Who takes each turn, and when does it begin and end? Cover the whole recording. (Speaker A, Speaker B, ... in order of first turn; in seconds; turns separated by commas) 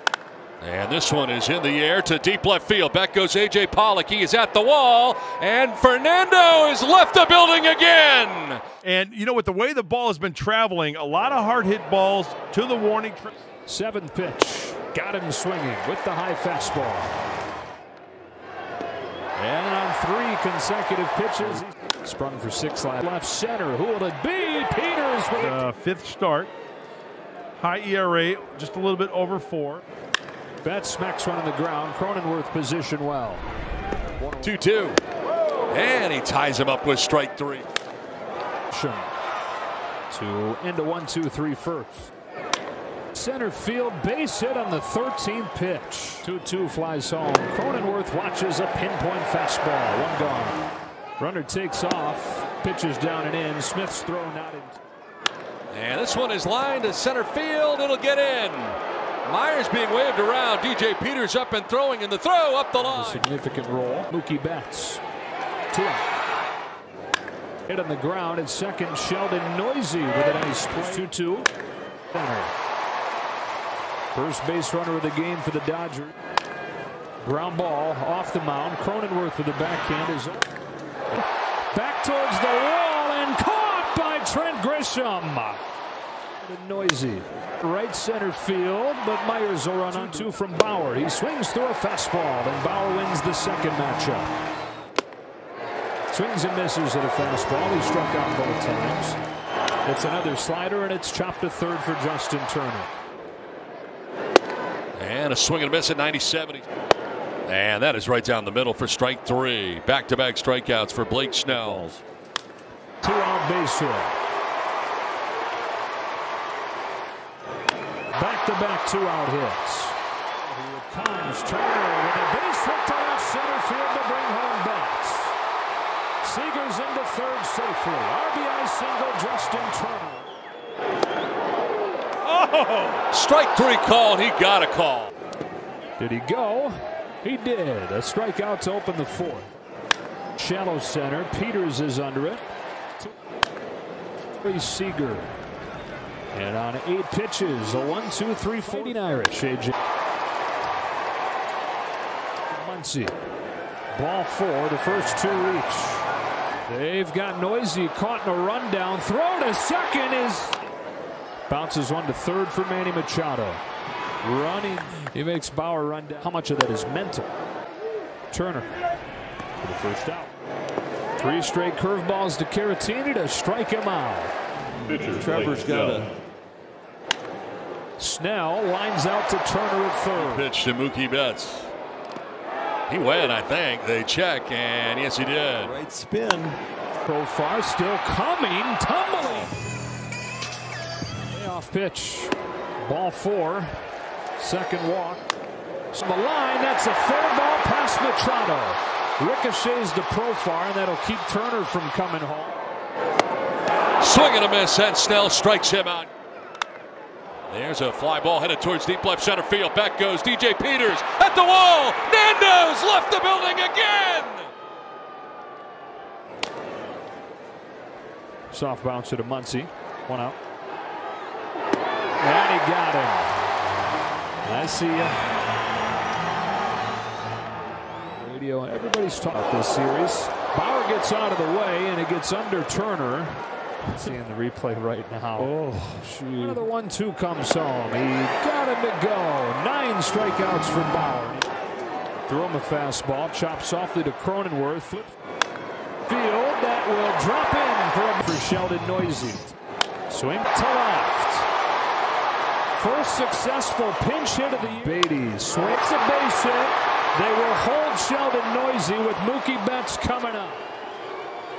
Speaker A: 0.6-8.6, Speaker B: 8.8-13.3, Speaker C: 13.7-17.1, Speaker C: 19.4-25.6, Speaker B: 25.4-26.5, Speaker B: 27.6-29.8, Speaker C: 30.6-33.4, Speaker C: 34.2-34.5, Speaker A: 34.4-35.0, Speaker A: 35.7-37.6, Speaker C: 38.7-39.1, Speaker C: 40.1-42.1, Speaker C: 43.1-50.6, Speaker C: 51.2-54.8, Speaker A: 55.7-63.3, Speaker C: 62.9-65.0, Speaker C: 65.7-66.1, Speaker C: 67.7-71.5, Speaker C: 72.1-72.5, Speaker C: 74.1-76.1, Speaker C: 77.2-80.5, Speaker C: 81.7-85.6, Speaker C: 86.4-94.3, Speaker C: 96.1-99.2, Speaker C: 99.8-102.9, Speaker A: 104.9-106.6, Speaker A: 107.5-111.8, Speaker D: 111.5-112.0, Speaker C: 113.0-114.2, Speaker C: 118.1-125.3, Speaker C: 126.2-130.3, Speaker A: 132.3-135.1, Speaker C: 136.0-139.5, Speaker C: 140.4-142.4, Speaker C: 144.4-145.3, Speaker C: 146.3-149.7, Speaker C: 152.5-153.1, Speaker C: 153.9-156.0, Speaker C: 156.7-160.6, Speaker C: 161.5-163.6, Speaker C: 164.2-167.3, Speaker C: 168.3-168.7, Speaker C: 169.6-170.3, Speaker C: 171.2-174.3, Speaker D: 175.0-176.1, Speaker A: 175.2-176.0, Speaker C: 178.0-180.4, Speaker A: 180.1-181.7, Speaker A: 182.9-185.8, Speaker D: 185.5-186.6, Speaker C: 187.0-189.5, Speaker C: 191.3-193.7, Speaker C: 194.4-195.2, Speaker C: 195.9-202.5, Speaker A: 204.0-206.1, Speaker A: 207.5-214.5, Speaker C: 218.5-220.3, Speaker C: 222.2-223.3, Speaker C: 224.4-225.1, Speaker C: 228.2-233.4, Speaker C: 233.9-235.5, Speaker C: 236.3-241.5, Speaker C: 242.3-245.1, Speaker C: 246.1-249.6, Speaker C: 250.1-251.4, Speaker C: 252.8-260.6